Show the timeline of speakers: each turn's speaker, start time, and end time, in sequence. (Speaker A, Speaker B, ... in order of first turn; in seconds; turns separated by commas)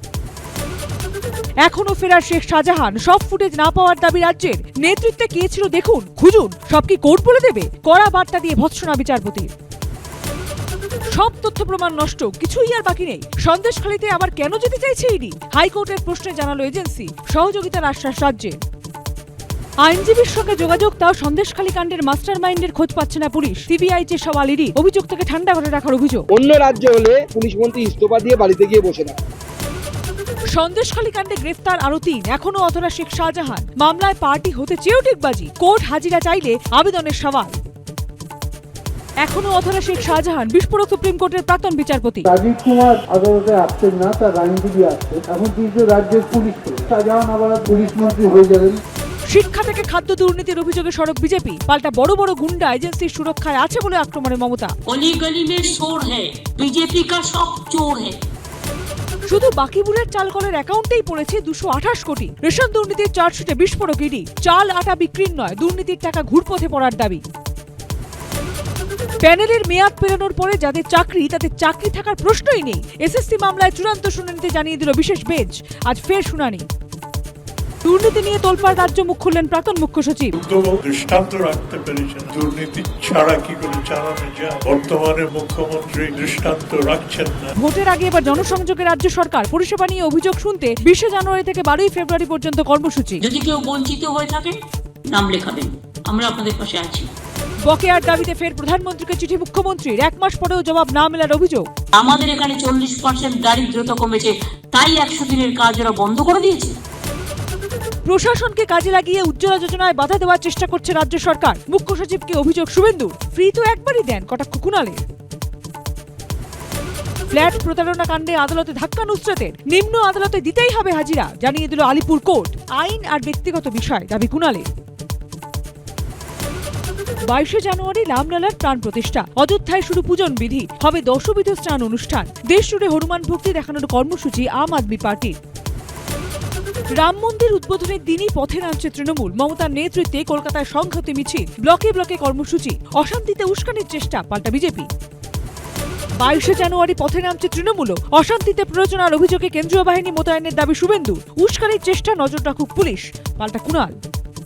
Speaker A: 1.6-9.5, Speaker A: 11.1-18.6, Speaker A: 19.8-26.2, Speaker B: 26.3-29.2, Speaker A: 30.5-37.6, Speaker A: 39.2-42.3, Speaker C: 42.3-48.8, Speaker A: 49.3-54.7, Speaker D: 54.9-58.1, Speaker A: 59.3-67.2, Speaker A: 69.2-76.7, Speaker A: 77.8-80.3, Speaker E: 80.4-87.5, Speaker A: 87.6-93.2, Speaker D: 93.2-94.6, Speaker D: 95.1-97.1, Speaker A: 97.7-101.7, Speaker D: 102.0-106.8, Speaker A: 108.1-115.0, Speaker A: 117.3-124.7, Speaker A: 127.3-135.3, Speaker A: 136.9-144.9, Speaker A: 146.2-153.9